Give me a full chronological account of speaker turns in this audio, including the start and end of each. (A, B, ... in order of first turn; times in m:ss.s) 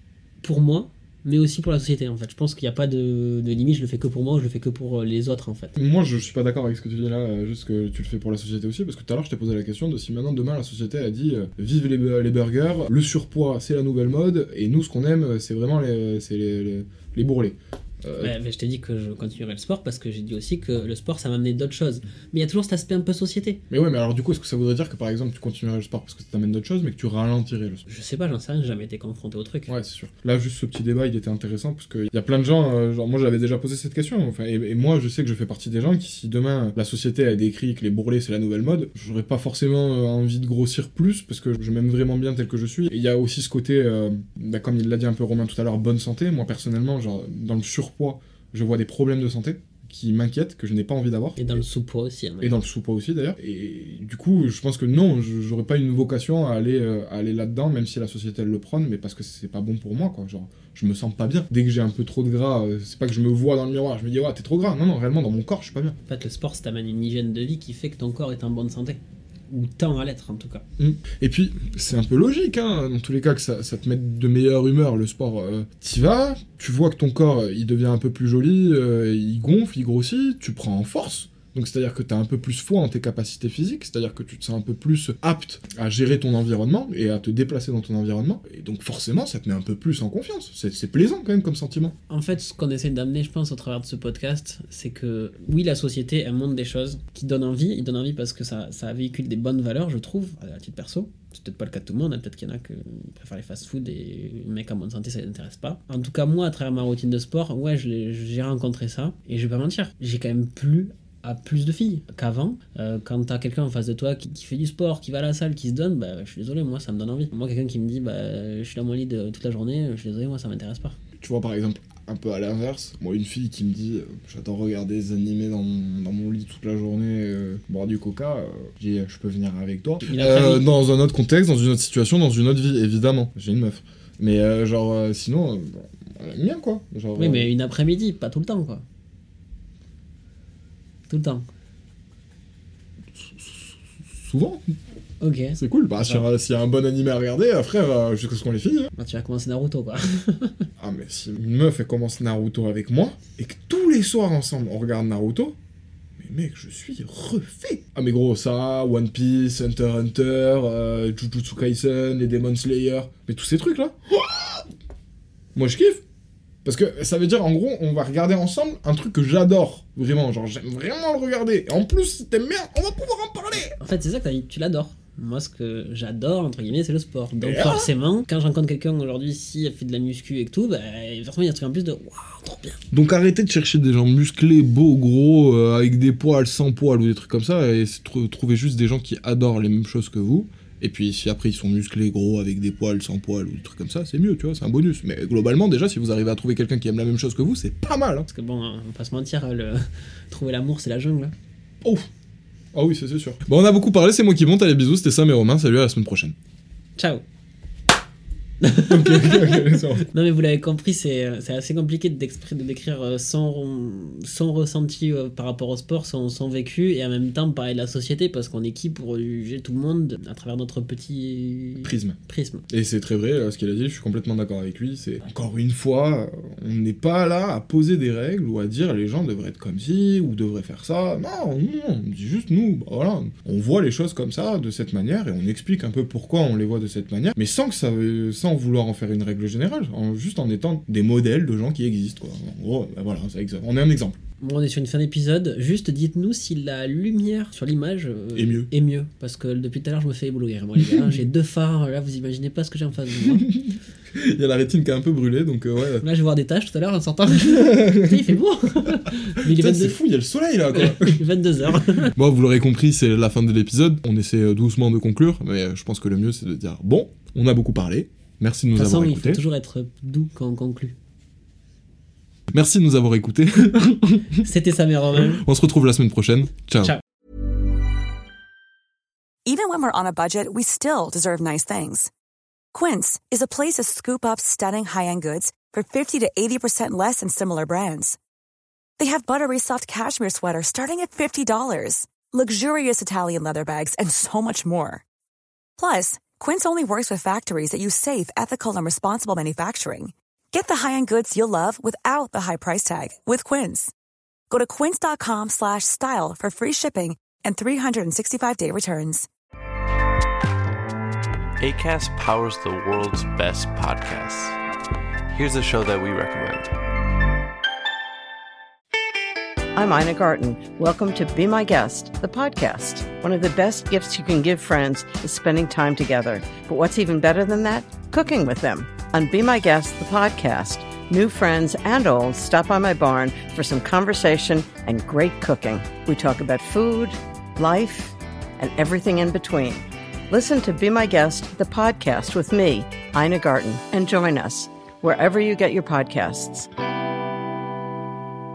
0:00.4-0:05.8 A
0:05.8-0:18.3 B
0:18.2-0:23.6 A
0:23.7-0:27.8 B
0:27.9-0:29.7 A
0:29.7-0:51.6 B
0:51.4-0:52.6 A
0:52.4-1:06.0 B
1:06.1-1:10.6 A
1:10.8-1:32.0 B
1:32.1-2:01.0 A
2:01.2-2:17.5 B
2:10.0-2:10.6 A
2:17.2-2:18.8 A
2:21.1-2:21.5 A
2:23.2-2:24.7 B
2:25.2-2:26.2 A
2:25.6-2:28.9 B
2:28.9-2:30.7 A
2:30.8-2:35.6 B
2:36.2-2:44.7 B
2:45.6-2:46.0 B
2:46.6-2:53.8 B
2:53.8-3:02.8 A
2:57.4-2:57.9 B
3:02.9-3:18.3 B
3:18.3-3:21.3 A
3:21.8-3:22.1 B
3:22.7-3:26.4 B
3:27.0-3:27.2 A
3:28.6-3:42.6 A
3:28.8-3:30.1 B
3:41.8-3:42.2 B
3:42.7-4:04.2 B
4:04.4-4:13.5 A
4:08.4-4:08.7 B
4:10.8-4:11.1 B
4:13.2-4:16.0 B
4:16.0-4:20.0 A
4:17.4-4:18.2 B
4:19.4-4:21.2 B
4:20.7-4:22.1 A
4:22.2-4:29.4 B
4:28.8-4:31.0 A
4:32.5-4:34.5 B
4:34.4-4:35.4 A
4:35.2-4:37.0 B
4:39.5-4:42.1 C
4:42.7-4:48.2 C
4:49.0-4:55.0 C
4:55.8-5:03.9 C
5:04.5-5:09.3 C
5:11.6-5:14.6 D
5:15.3-5:16.7 D
5:19.8-5:46.7 E